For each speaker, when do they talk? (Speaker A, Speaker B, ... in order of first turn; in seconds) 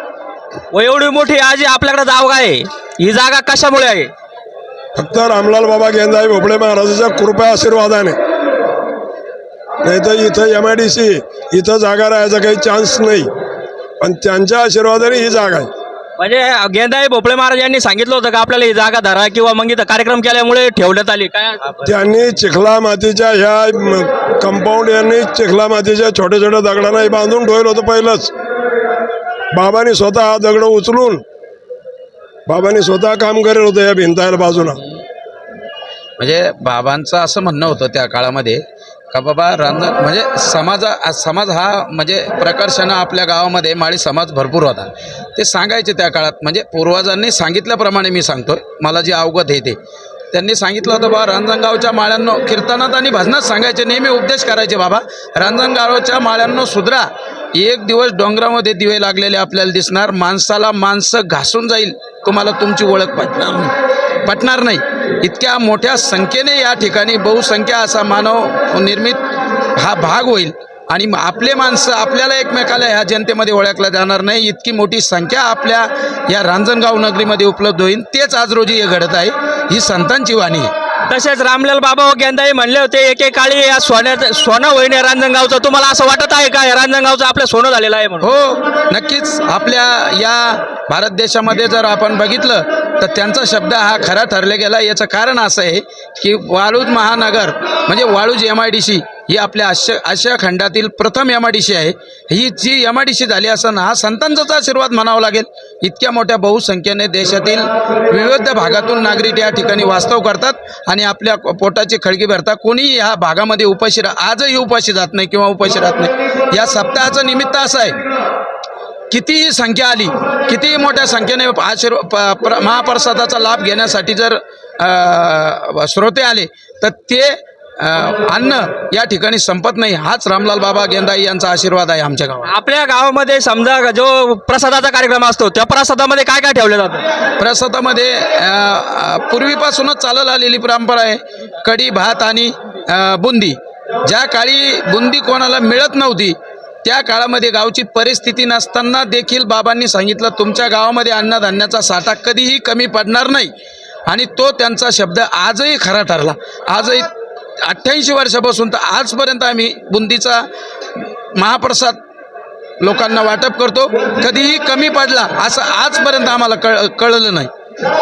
Speaker A: 0.7-4.1, 16.2-21.7, 81.1-88.3, 132.4-137.0
Speaker B: 4.9-8.2, 9.8-13.3, 14.0-15.7, 21.8-28.3, 29.5-31.2, 32.5-34.8
Speaker C: 36.2-49.8, 50.3-63.7, 64.2-69.2, 69.8-80.7, 88.2-118.0, 119.1-132.5, 137.4-153.5, 154.1-157.1, 157.6-162.0, 162.8-167.5